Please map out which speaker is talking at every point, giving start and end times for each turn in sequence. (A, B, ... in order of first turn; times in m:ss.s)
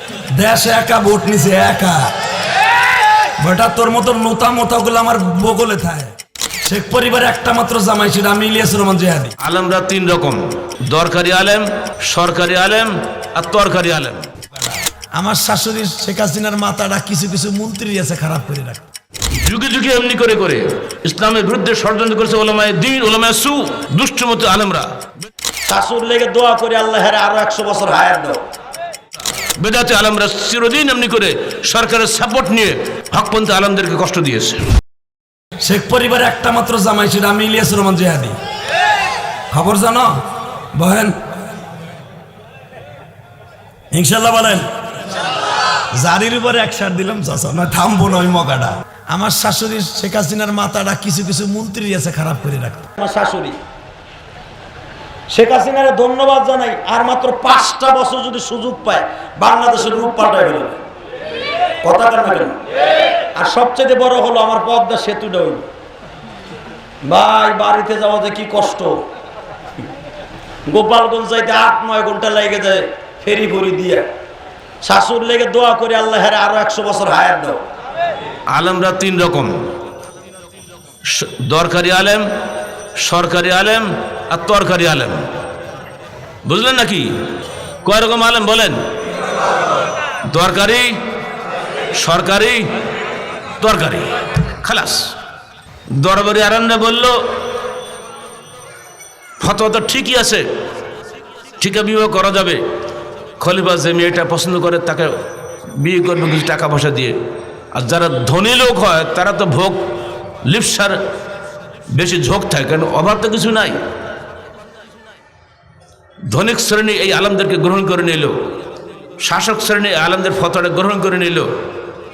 0:00.3-0:02.1 A
0:03.4-0:06.1 A
0:06.6-0:09.3 A
0:09.4-0:14.3 B
0:15.2-0:18.8 A
0:19.4-0:25.0 B
0:25.7-0:28.4 C
0:29.6-0:34.6 B
0:35.6-0:38.4 A
0:39.5-0:40.1 A
0:40.7-0:41.1 A
0:43.9-0:44.6 A
0:45.9-0:52.9 A
0:53.0-0:53.6 C
0:55.3-1:00.8 C
1:01.8-1:02.5 C
1:03.4-1:05.6 C
1:07.1-1:08.9 C
1:10.7-1:14.0 C
1:14.8-1:17.6 C
1:18.5-1:19.6 B
1:21.1-1:22.3 B
1:23.0-1:25.2 B
1:26.4-1:27.1 B
1:27.8-1:28.8 B
1:30.3-1:31.0 B
1:32.0-1:32.7 B
1:33.6-1:35.1 B
1:36.0-1:37.2 B
1:39.4-1:40.4 B
1:41.6-1:42.6 B
1:43.4-1:45.1 B
1:45.8-1:47.2 B
1:47.7-1:49.8 B
1:50.4-1:51.0 B
1:52.0-1:53.8 B
1:56.3-1:58.3 B
1:59.2-2:01.5 B